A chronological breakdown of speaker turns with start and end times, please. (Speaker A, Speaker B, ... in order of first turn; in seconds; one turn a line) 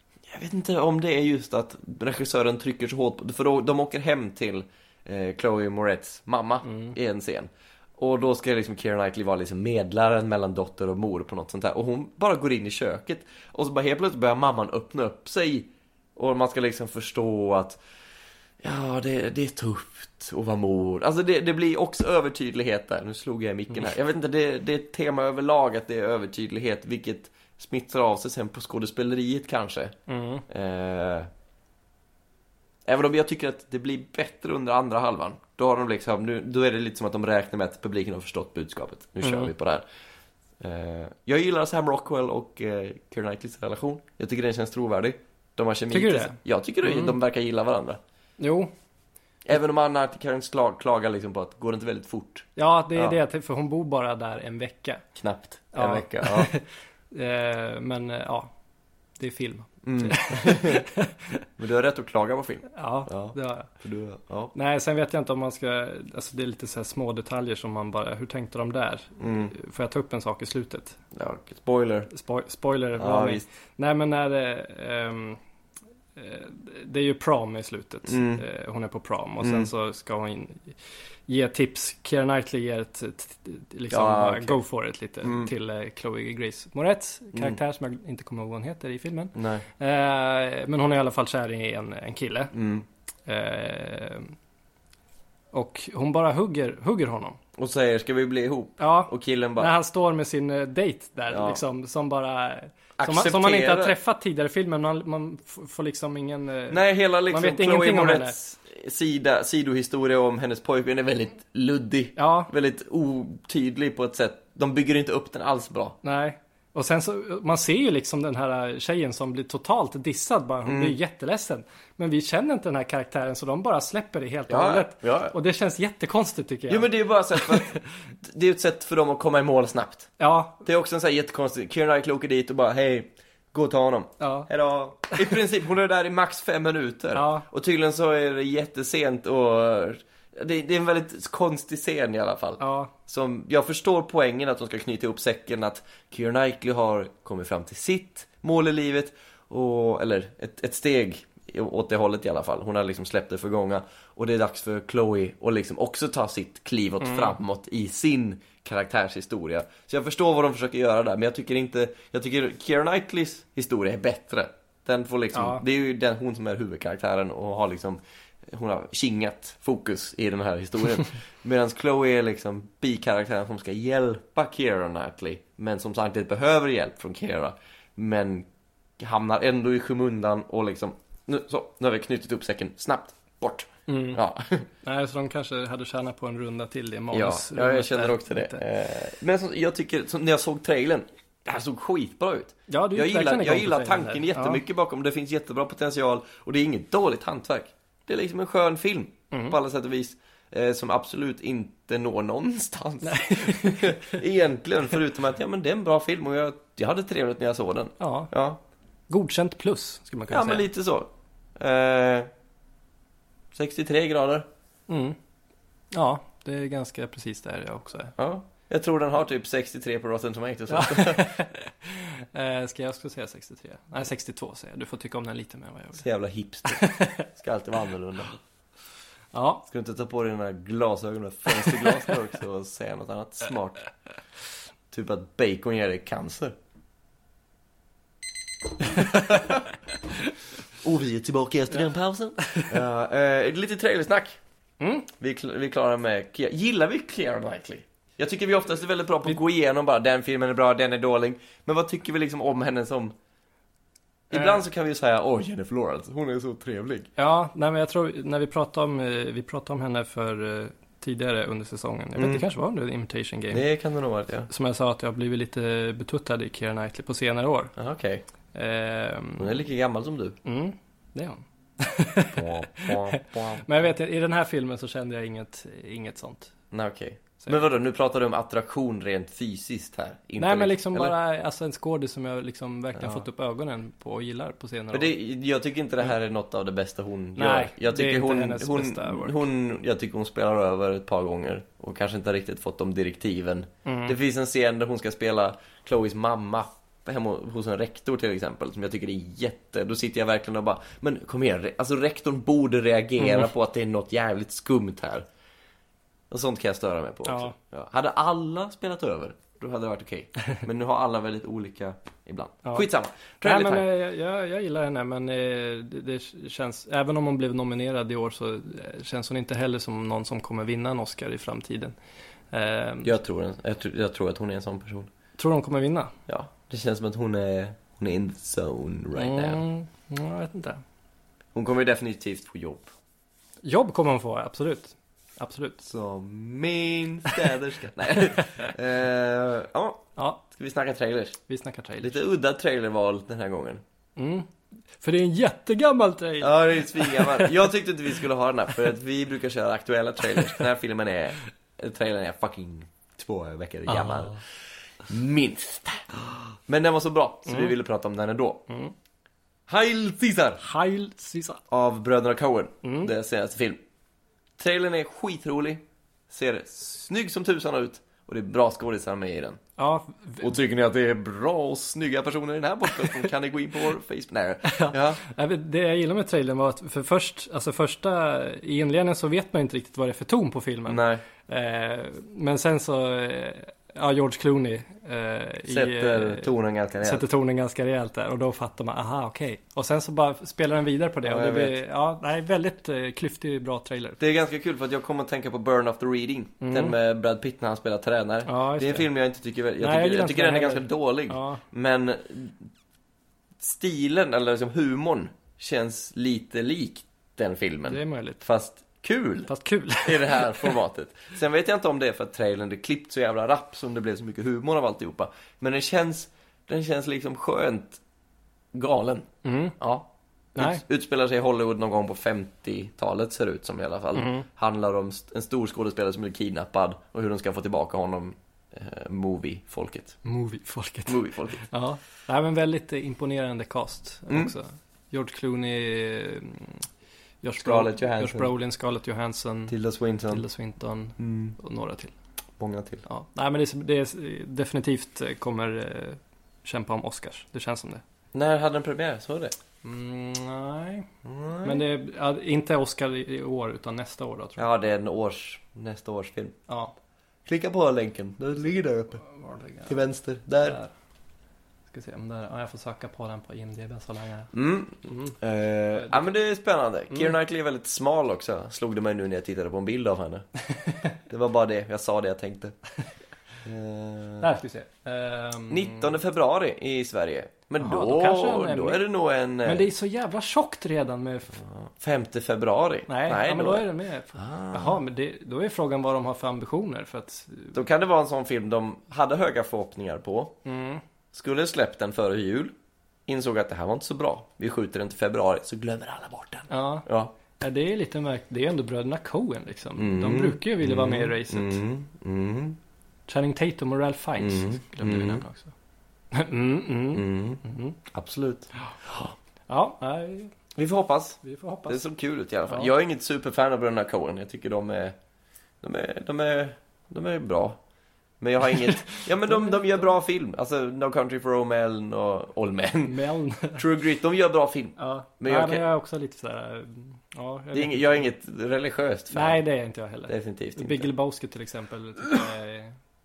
Speaker A: 0.3-17.8
Speaker B: 6.6-6.9
Speaker A: 18.6-29.9
Speaker B: 30.1-30.4
Speaker A: 30.5-31.3
Speaker A: 32.8-39.8
Speaker B: 39.2-39.5
Speaker A: 40.6-48.0
Speaker B: 45.9-47.2
Speaker B: 48.4-48.7
Speaker A: 49.5-53.1
Speaker B: 52.5-55.0
Speaker A: 55.2-56.5
Speaker B: 55.7-58.5
Speaker B: 59.2-61.4
Speaker A: 59.8-60.8
Speaker A: 61.6-64.5
Speaker B: 62.7-63.7
Speaker B: 64.5-71.0
Speaker A: 69.2-69.5
Speaker A: 71.1-72.1
Speaker B: 72.1-75.4
Speaker A: 73.0-73.5
Speaker B: 76.2-80.7
Speaker A: 78.1-78.4
Speaker A: 79.4-79.7
Speaker B: 81.3-92.5
Speaker A: 83.9-84.6
Speaker A: 85.2-85.5
Speaker A: 89.3-89.6
Speaker A: 92.5-92.8
Speaker B: 93.2-94.3
Speaker B: 95.5-97.4
Speaker A: 97.5-99.7
Speaker B: 98.8-108.3
Speaker A: 101.3-101.6
Speaker A: 103.0-103.9
Speaker A: 106.7-116.0
Speaker B: 112.2-112.5
Speaker B: 116.0-127.8
Speaker A: 120.7-121.0
Speaker A: 124.5-125.3
Speaker A: 126.7-130.1
Speaker B: 130.2-130.6
Speaker A: 130.6-178.5
Speaker B: 134.2-134.5
Speaker B: 137.1-137.5
Speaker B: 142.6-142.9
Speaker B: 157.0-157.3
Speaker B: 165.3-165.6
Speaker A: 179.0-184.7
Speaker B: 183.9-184.2
Speaker B: 184.8-188.6
Speaker A: 187.1-208.6
Speaker B: 192.7-194.6
Speaker B: 199.3-199.6
Speaker B: 203.0-204.2
Speaker B: 208.0-208.3
Speaker B: 209.1-210.7
Speaker A: 210.3-212.3
Speaker A: 213.5-214.5
Speaker B: 214.9-215.2
Speaker B: 215.9-218.1
Speaker A: 218.2-221.3
Speaker B: 220.7-226.0
Speaker A: 226.0-228.4
Speaker B: 226.7-227.3
Speaker B: 229.3-229.6
Speaker A: 229.7-233.8
Speaker A: 234.9-236.5
Speaker A: 238.8-239.6
Speaker A: 240.8-244.4
Speaker B: 242.4-242.7
Speaker B: 244.8-245.1
Speaker A: 245.2-253.1
Speaker A: 254.3-257.1
Speaker B: 254.3-254.6
Speaker B: 257.2-263.6
Speaker A: 262.1-262.4
Speaker A: 263.5-264.5
Speaker B: 264.5-267.7
Speaker A: 267.8-268.2
Speaker B: 268.5-269.5
Speaker A: 269.4-270.4
Speaker B: 270.4-276.5
Speaker A: 272.3-273.6
Speaker A: 276.7-281.1
Speaker B: 280.4-285.1
Speaker A: 283.0-283.2
Speaker A: 284.9-305.2
Speaker B: 287.4-289.4
Speaker B: 293.8-294.2
Speaker A: 306.3-313.9
Speaker B: 307.2-307.6
Speaker B: 313.4-321.9
Speaker B: 322.5-323.1
Speaker A: 323.0-325.1
Speaker B: 325.4-326.1
Speaker A: 326.3-329.6
Speaker B: 329.1-330.8
Speaker A: 331.5-332.9
Speaker B: 333.6-335.8
Speaker A: 335.8-341.4
Speaker B: 338.1-338.7
Speaker B: 340.1-340.4
Speaker B: 341.5-342.2
Speaker A: 342.0-343.8
Speaker B: 344.2-347.6
Speaker A: 346.4-354.3
Speaker B: 353.9-354.4
Speaker A: 355.1-358.6
Speaker B: 357.5-357.7
Speaker A: 359.7-360.7
Speaker B: 360.6-361.6
Speaker A: 361.7-363.8
Speaker B: 362.8-363.1
Speaker A: 364.6-369.6
Speaker B: 369.8-370.5
Speaker A: 370.4-375.2
Speaker B: 374.6-386.5
Speaker A: 380.9-381.2
Speaker A: 385.7-387.2
Speaker B: 387.0-394.2
Speaker A: 391.2-391.8
Speaker A: 394.2-402.7
Speaker B: 396.6-396.9
Speaker B: 398.4-399.1
Speaker B: 399.8-401.6
Speaker A: 403.6-409.5
Speaker B: 407.9-408.4
Speaker B: 409.5-410.8
Speaker A: 410.0-418.0
Speaker A: 418.7-430.2
Speaker B: 419.4-419.7
Speaker B: 420.6-420.8
Speaker B: 424.1-424.4
Speaker B: 430.2-436.8
Speaker A: 431.1-431.6
Speaker B: 437.4-439.8
Speaker A: 437.6-438.5
Speaker A: 439.7-440.4
Speaker B: 440.3-442.1
Speaker A: 441.2-441.6
Speaker A: 442.6-443.0
Speaker B: 443.0-448.0
Speaker A: 448.3-449.5
Speaker B: 449.8-451.1
Speaker A: 451.2-451.9
Speaker B: 451.6-454.6
Speaker A: 454.6-456.6
Speaker B: 456.7-456.9
Speaker A: 457.4-459.2
Speaker B: 459.2-460.0
Speaker A: 459.9-460.8
Speaker B: 460.6-460.9
Speaker B: 461.9-464.5
Speaker A: 464.5-470.4
Speaker B: 465.9-466.2
Speaker B: 470.8-471.1
Speaker A: 471.3-472.8
Speaker A: 473.6-474.5
Speaker B: 474.4-476.1
Speaker A: 475.7-479.9
Speaker B: 477.8-479.0
Speaker B: 479.6-481.6
Speaker A: 481.6-485.0
Speaker B: 483.1-487.8
Speaker A: 487.7-490.6
Speaker B: 490.6-491.0
Speaker A: 491.3-492.7
Speaker A: 493.3-497.3
Speaker B: 496.7-497.1
Speaker B: 497.6-501.8
Speaker A: 500.0-502.8
Speaker B: 503.3-505.7
Speaker A: 504.4-505.4
Speaker B: 506.3-508.0
Speaker A: 507.1-509.3
Speaker B: 509.7-510.5
Speaker A: 510.8-515.1
Speaker B: 511.4-512.0
Speaker A: 515.8-517.8
Speaker A: 518.4-523.2
Speaker B: 519.1-520.1
Speaker B: 523.0-523.8
Speaker A: 523.7-525.8
Speaker B: 525.0-528.3
Speaker A: 527.7-529.6
Speaker B: 529.3-533.0
Speaker A: 530.3-531.1